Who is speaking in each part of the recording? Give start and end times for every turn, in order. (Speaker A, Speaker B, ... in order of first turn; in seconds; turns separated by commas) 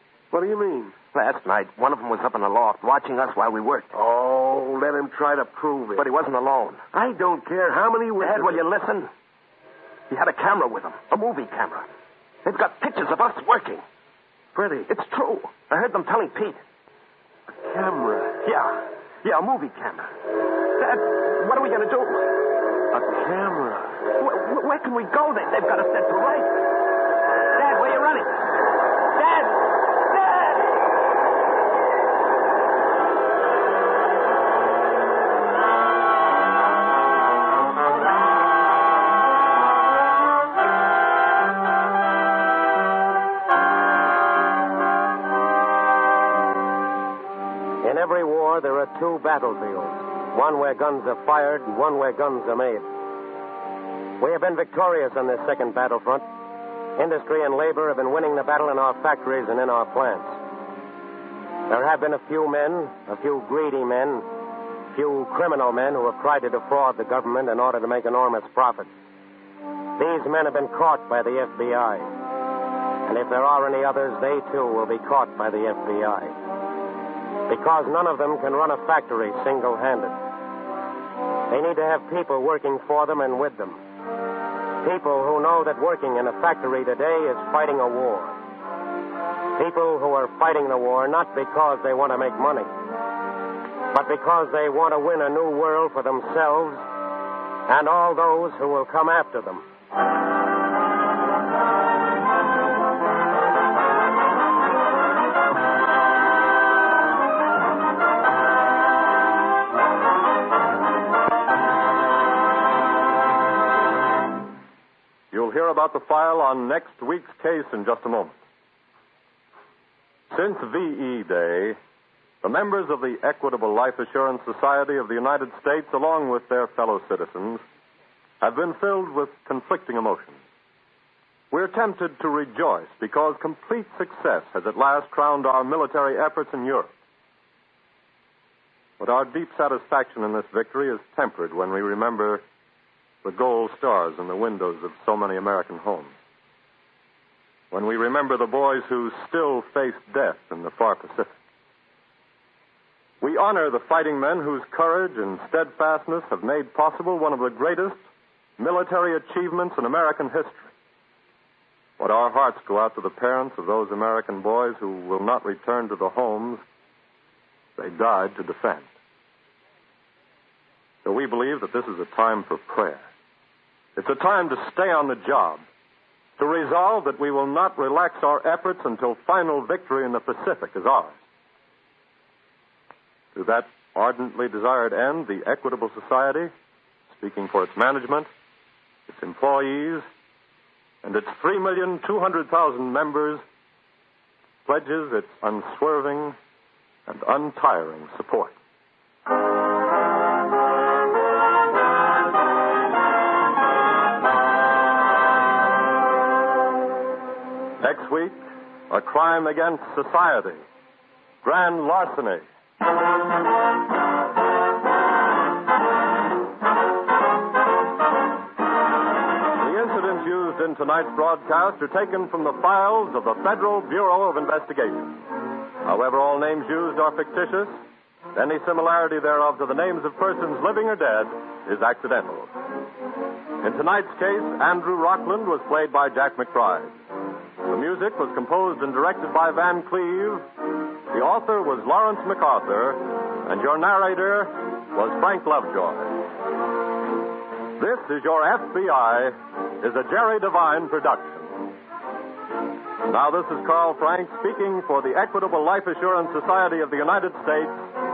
Speaker A: 0.3-0.9, Speaker B: 1.1-3.9, Speaker A: 3.9-6.1, Speaker B: 6.0-6.8, Speaker A: 6.9-8.7, Speaker B: 8.2-9.1, Speaker B: 10.1-11.9, Speaker B: 12.4-13.8, Speaker A: 14.6-14.9, Speaker B: 14.9-16.6, Speaker A: 17.5-18.4, Speaker B: 18.4-20.1, Speaker B: 20.7-22.4, Speaker A: 22.9-24.0, Speaker B: 24.2-26.6, Speaker B: 27.6-28.5, Speaker B: 29.1-29.6, Speaker B: 30.1-30.6, Speaker C: 47.8-52.9, Speaker C: 54.2-56.3, Speaker C: 57.0-60.4, Speaker C: 61.7-64.3, Speaker C: 64.9-68.9, Speaker C: 70.0-72.1, Speaker C: 73.1-76.3, Speaker C: 77.5-80.2, Speaker C: 81.5-83.8, Speaker C: 84.8-88.4, Speaker C: 89.6-92.7, Speaker C: 93.9-96.8, Speaker C: 97.7-99.7, Speaker D: 115.3-118.4, Speaker D: 120.3-121.8, Speaker D: 122.4-127.6, Speaker D: 128.4-130.4, Speaker D: 131.5-136.9, Speaker D: 139.0-142.4, Speaker D: 143.2-146.1, Speaker D: 147.7-151.3, Speaker D: 153.2-158.0, Speaker D: 158.6-160.7, Speaker D: 162.0-166.6, Speaker D: 167.8-168.9, Speaker D: 171.0-173.0, Speaker D: 174.0-175.6, Speaker D: 176.4-181.2, Speaker D: 183.3-186.5, Speaker D: 187.1-188.3, Speaker D: 189.1-190.1, Speaker D: 191.0-193.4, Speaker D: 194.7-196.4, Speaker D: 197.1-198.6, Speaker D: 207.8-210.6, Speaker D: 211.4-212.4, Speaker D: 219.6-225.2, Speaker D: 225.8-227.8, Speaker D: 228.3-232.5, Speaker D: 233.6-237.0, Speaker D: 237.7-240.5, Speaker D: 241.1-246.1, Speaker D: 247.8-251.5, Speaker D: 253.1-257.9